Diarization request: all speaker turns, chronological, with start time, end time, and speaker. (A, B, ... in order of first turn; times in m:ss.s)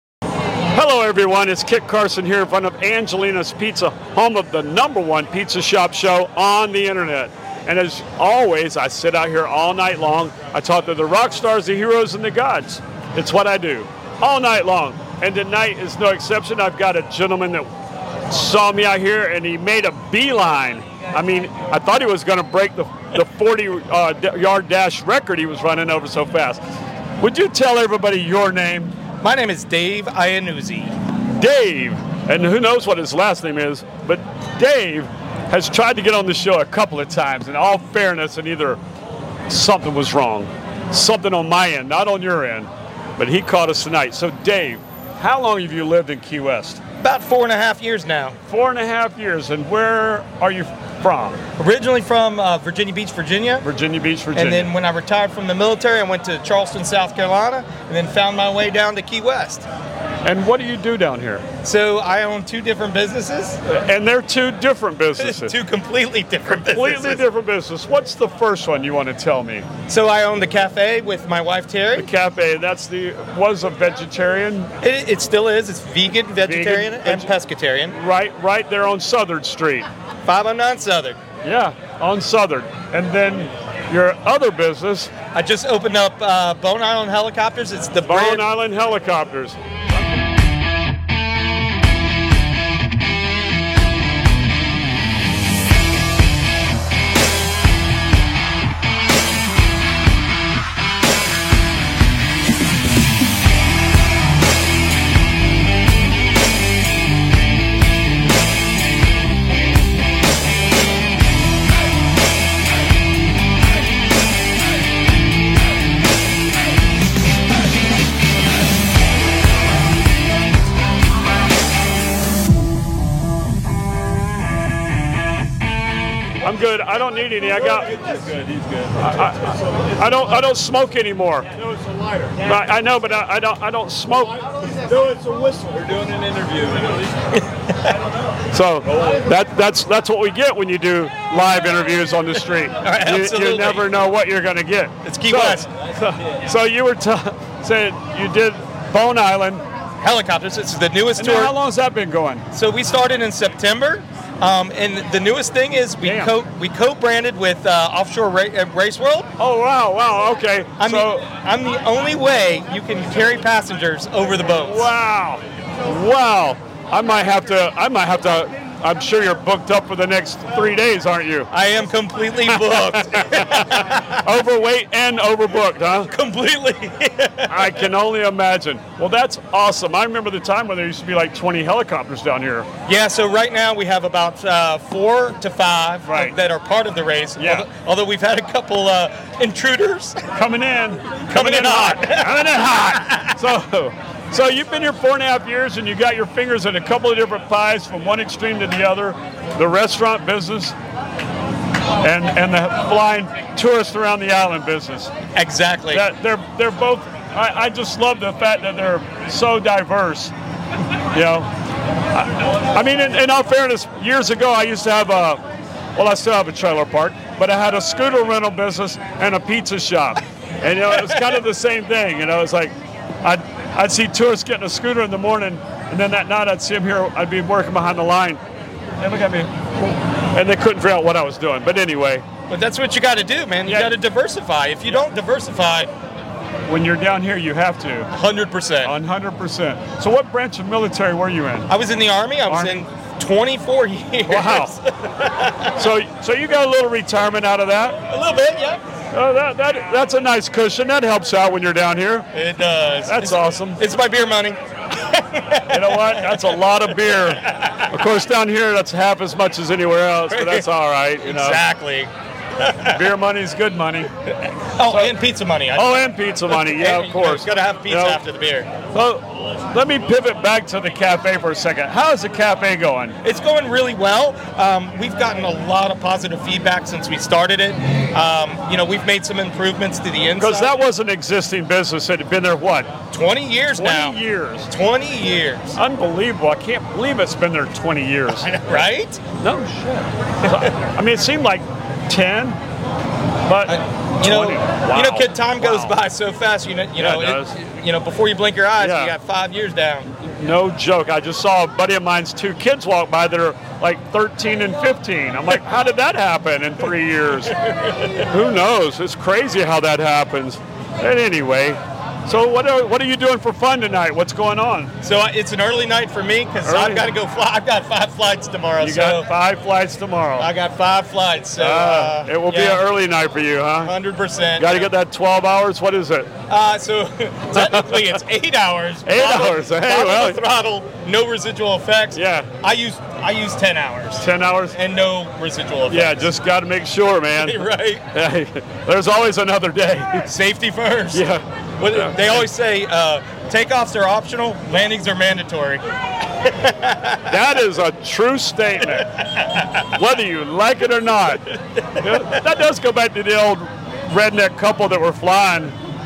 0:00.7-0:17.7 A
0:18.3-0:26.6 A
0:27.2-0:29.0 A
0:29.2-0:30.9 B
0:31.4-0:38.8 A
0:39.5-0:46.8 A
0:47.0-0:48.4 B
0:48.5-0:51.4 A
0:51.6-0:53.7 B
0:53.6-0:54.7 A
0:54.4-0:59.7 B
1:00.2-1:01.4 A
1:01.6-1:03.6 B
1:03.7-1:05.6 A
1:05.2-1:07.2 B
1:06.4-1:09.7 A
1:09.9-1:12.1 B
1:12.0-1:14.7 A
1:14.8-1:18.0 B
1:16.4-1:17.3 A
1:17.9-1:19.9 A
1:20.2-1:21.2 B
1:21.4-1:25.1 A
1:25.3-1:28.5 B
1:28.0-1:29.6 A
2:06.4-2:08.1 A
2:08.9-2:11.5 A
2:12.4-2:14.4 A
2:14.9-2:17.0 C
2:18.5-2:29.6 A
2:22.8-2:23.9 B
2:25.0-2:25.7 B
2:30.0-2:31.5 B
2:31.2-2:32.4 A
2:32.5-2:39.3 B
2:36.0-2:36.3 A
2:39.4-2:41.3 A
2:40.8-2:44.9 B
2:44.6-2:51.5 A
2:51.5-2:54.3 B
2:52.7-2:56.1 A
2:56.1-2:57.8 B
2:57.5-3:02.7 A
3:02.9-3:10.3 B
3:06.0-3:06.4 A
3:07.4-3:07.7 A
3:10.4-3:20.8 A
3:11.3-3:13.3 B
3:22.0-3:25.1 A
3:25.4-3:26.1 B
3:25.9-3:30.3 A
3:31.1-3:31.5 A
3:32.1-3:35.4 A
3:36.0-3:48.4 A
3:41.0-3:41.3 B
3:49.0-3:52.2 A
3:52.5-3:55.9 B
3:53.7-3:54.0 A
3:56.7-3:58.1 A
3:58.1-3:59.0 B
3:58.8-4:01.7 A
4:01.7-4:05.7 B
4:02.5-4:02.9 A
4:04.3-4:04.8 A
4:05.7-4:08.0 A
4:08.1-4:08.8 B
4:09.1-4:12.3 A
4:12.3-4:16.4 B
4:13.1-4:13.8 A
4:15.7-4:21.6 A
4:20.3-4:20.7 B
4:21.2-4:23.0 B
4:22.9-4:24.1 A
4:24.6-4:28.7 B
4:24.9-4:25.1 A
4:25.8-4:28.2 A
4:28.9-4:33.2 A
4:33.2-4:40.7 B
4:40.4-4:42.9 A
4:43.1-4:44.2 B
4:43.8-4:44.7 A
4:44.7-4:45.8 B
4:45.8-4:48.5 A
4:48.3-4:49.2 B
4:49.4-4:52.6 A
4:50.4-4:50.7 B
4:53.5-4:56.0 A
4:53.7-5:00.1 B
4:57.0-4:57.6 A
4:58.8-4:59.1 A
5:00.1-5:07.6 A
5:07.6-5:08.0 B
5:08.1-5:14.9 A
5:15.0-5:19.3 B
5:16.6-5:17.1 A
5:18.8-5:20.5 A
5:20.4-5:22.8 B
5:21.6-5:23.9 A
5:23.8-5:24.9 B
5:24.6-5:26.3 A
5:26.5-5:36.3 B
5:27.6-5:28.0 A
5:29.0-5:30.4 A
5:32.1-5:32.5 A
5:34.2-5:34.8 A
5:35.9-5:40.3 A
5:37.4-5:38.0 B
5:40.3-5:41.3 B
5:41.1-5:42.4 A
5:41.8-5:45.8 B
5:46.4-5:47.3 B
5:47.3-5:49.2 A
5:49.7-5:55.7 A